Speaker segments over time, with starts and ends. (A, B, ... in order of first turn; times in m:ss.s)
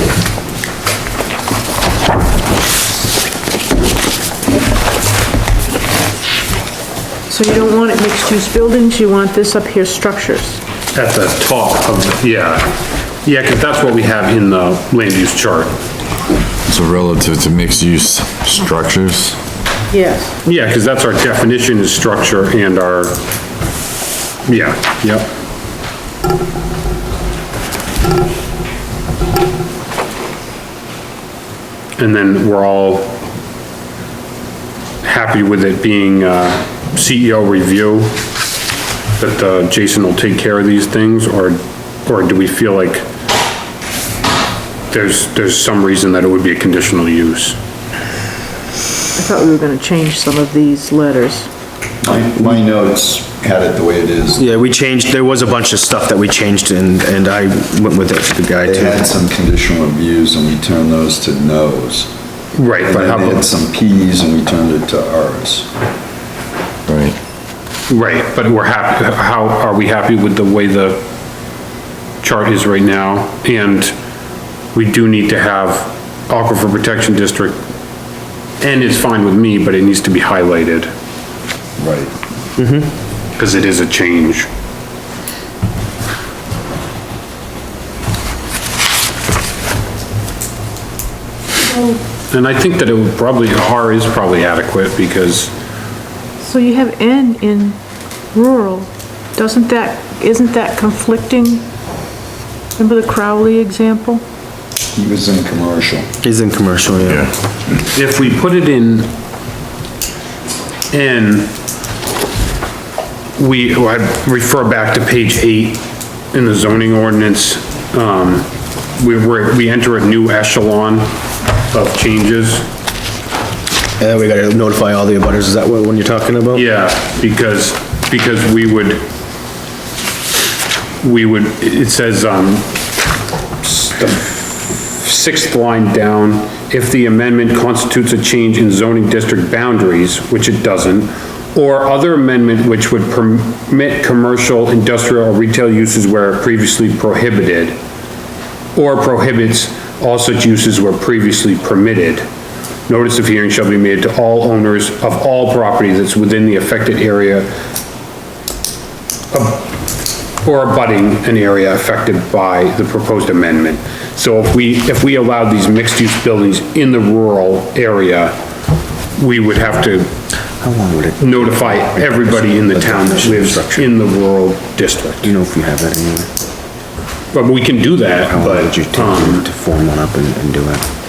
0:07.3-0:10.6 A
0:10.9-0:15.7 B
0:16.7-0:19.4 C
0:19.9-0:20.3 A
0:20.4-0:23.2 B
0:24.4-0:25.3 B
0:32.0-0:33.2 B
0:35.0-0:38.2 B
0:39.2-0:43.0 B
0:44.9-0:47.6 B
0:49.2-0:51.5 A
0:52.0-0:54.4 D
0:54.4-0:59.1 E
0:58.6-1:02.1 D
1:02.5-1:03.5 B
1:02.8-1:05.7 D
1:06.9-1:07.2 C
1:07.9-1:11.0 B
1:12.2-1:13.9 B
1:14.7-1:17.6 B
1:18.6-1:20.9 B
1:22.6-1:22.9 E
1:23.4-1:24.5 B
1:32.3-1:35.5 B
1:36.4-1:37.8 A
1:38.3-1:41.6 A
1:42.8-1:44.2 A
1:44.9-1:46.1 D
1:46.2-1:47.3 E
1:47.9-1:49.1 B
1:50.9-1:51.5 B
1:53.4-2:01.1 B
2:01.7-2:02.6 B
2:04.0-2:06.6 E
2:06.5-2:09.0 B
2:11.0-2:12.7 B
2:13.6-2:27.8 B
2:28.7-2:32.3 B
2:32.9-2:37.5 B
2:39.3-2:39.7 B
2:40.4-2:48.3 B
2:49.2-2:50.1 B
2:50.6-2:53.9 E
2:51.2-2:55.3 B
2:55.2-2:56.3 E
2:57.3-2:59.4 B
2:58.2-3:00.8 E